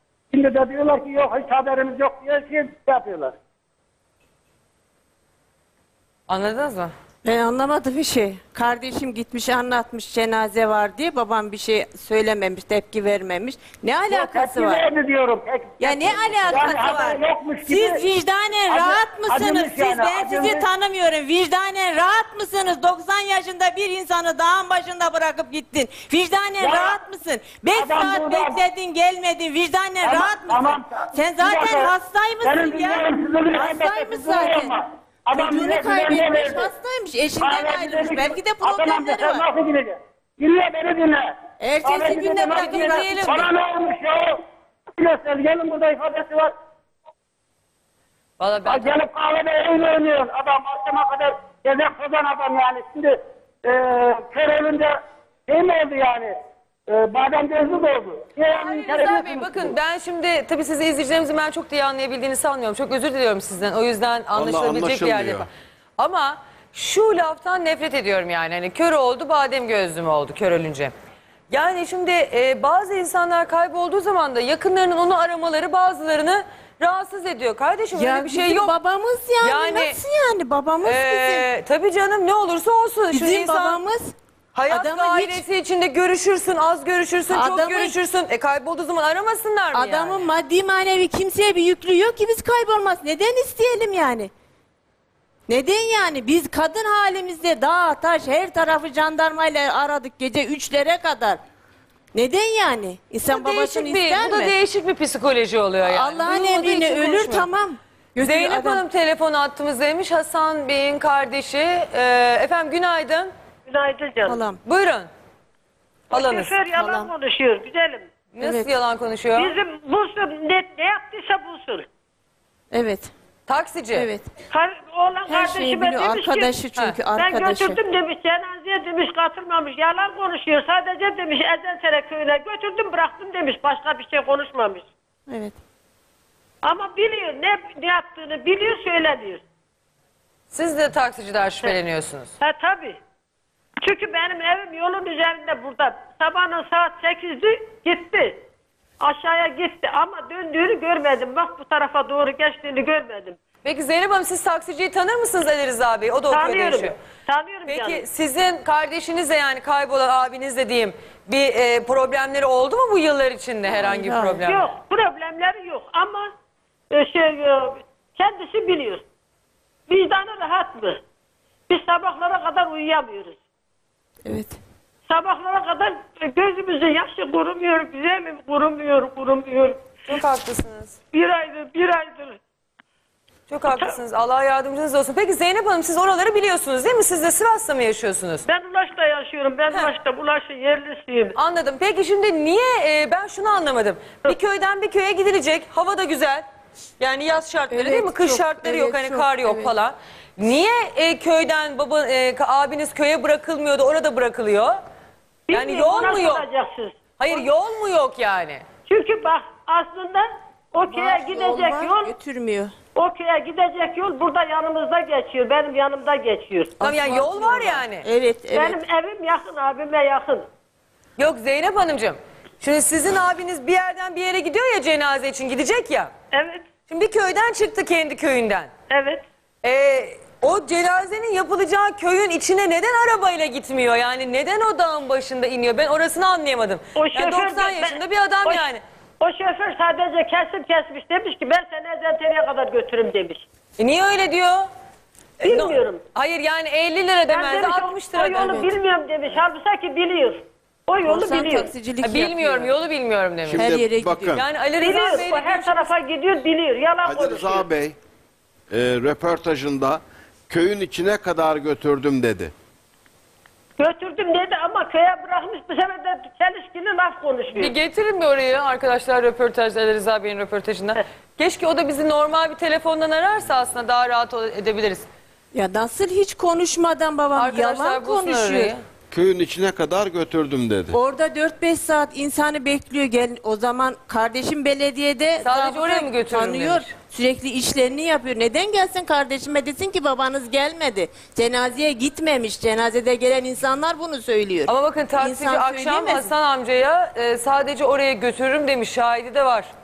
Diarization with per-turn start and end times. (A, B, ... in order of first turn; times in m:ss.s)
0:00.3-0:03.4 A
0:06.3-0:06.9 B
0:07.2-0:14.8 C
0:14.1-0:18.0 A
0:15.8-0:34.8 C
0:18.7-0:20.6 A
0:26.6-0:27.0 A
0:27.7-0:28.6 A
0:30.0-0:36.7 A
0:35.3-0:39.5 C
0:37.4-0:41.3 A
0:41.6-0:43.4 C
0:41.8-0:44.4 A
0:42.5-0:43.5 B
0:45.0-0:46.5 A
0:48.4-0:48.9 B
0:48.6-0:55.0 A
0:55.5-0:56.3 A
0:56.9-0:59.7 A
0:58.6-1:05.4 B
1:04.3-1:05.5 D
1:06.0-1:10.9 B
1:11.5-1:18.7 B
1:17.9-1:21.5 C
1:19.4-1:20.0 B
1:20.8-1:23.8 B
1:23.1-1:24.1 C
1:24.5-1:30.3 B
1:24.7-1:25.4 C
1:27.3-1:28.0 C
1:29.7-1:34.3 C
1:35.5-1:41.4 C
1:42.1-1:44.5 C
1:43.3-1:47.5 B
1:45.8-1:48.8 C
1:48.2-1:53.3 B
1:53.7-1:54.4 E
1:54.2-1:54.6 C
1:54.6-1:55.1 B
1:56.1-1:58.1 E
1:56.1-1:56.6 B
1:56.7-1:57.1 C
1:58.4-1:59.6 B
1:58.4-1:58.7 C
1:59.4-2:01.9 E
2:02.7-2:03.1 C
2:03.5-2:04.1 B
2:04.0-2:04.3 C
2:04.5-2:06.6 E
2:05.3-2:07.8 C
2:07.1-2:14.9 E
2:15.3-2:15.6 C
2:16.6-2:19.4 E
2:20.5-2:22.3 B
2:22.4-2:23.0 E
2:23.8-2:28.4 E
2:29.0-2:33.4 E
2:33.6-2:37.0 B
2:36.3-2:38.0 E
2:37.7-2:44.7 B
2:43.9-2:44.4 C
2:44.4-2:46.3 E
2:46.9-2:49.0 E
2:49.9-2:51.0 E
2:51.7-2:53.4 E
2:54.2-2:54.6 C
2:55.1-2:59.8 E
3:00.1-3:01.0 B
3:01.1-3:02.4 E
3:03.5-3:08.4 B
3:08.5-3:11.4 E
3:11.4-3:16.4 B
3:17.0-3:24.8 B
3:17.7-3:19.7 C
3:25.5-3:27.5 E
3:25.5-3:26.5 B
3:27.2-3:28.6 B
3:28.9-3:32.2 E
3:30.9-3:32.7 C
3:33.0-3:36.8 E
3:36.8-3:38.8 C
3:36.8-3:38.0 B
3:38.5-3:40.5 E
3:41.2-3:46.1 B
3:46.3-3:46.7 E
3:46.9-3:48.7 B
3:48.9-3:49.2 E
3:49.6-3:58.8 B
3:57.0-3:58.7 E
3:59.2-4:03.4 E
4:03.8-4:04.7 B
4:05.4-4:08.6 B
4:05.4-4:06.0 E
4:07.3-4:11.7 E
4:08.3-4:08.7 C
4:11.0-4:12.7 C
4:12.0-4:13.6 B
4:13.5-4:14.4 D
4:13.5-4:14.4 C
4:14.3-4:16.0 B
4:14.8-4:17.7 E
4:17.0-4:18.0 D
4:18.7-4:22.5 D
4:23.8-4:27.8 E
4:27.6-4:35.1 B
4:35.5-4:38.7 C
4:37.4-4:38.8 B
4:39.1-4:41.0 D
4:40.9-4:56.3 C
4:45.4-4:46.9 B
4:54.7-4:59.7 B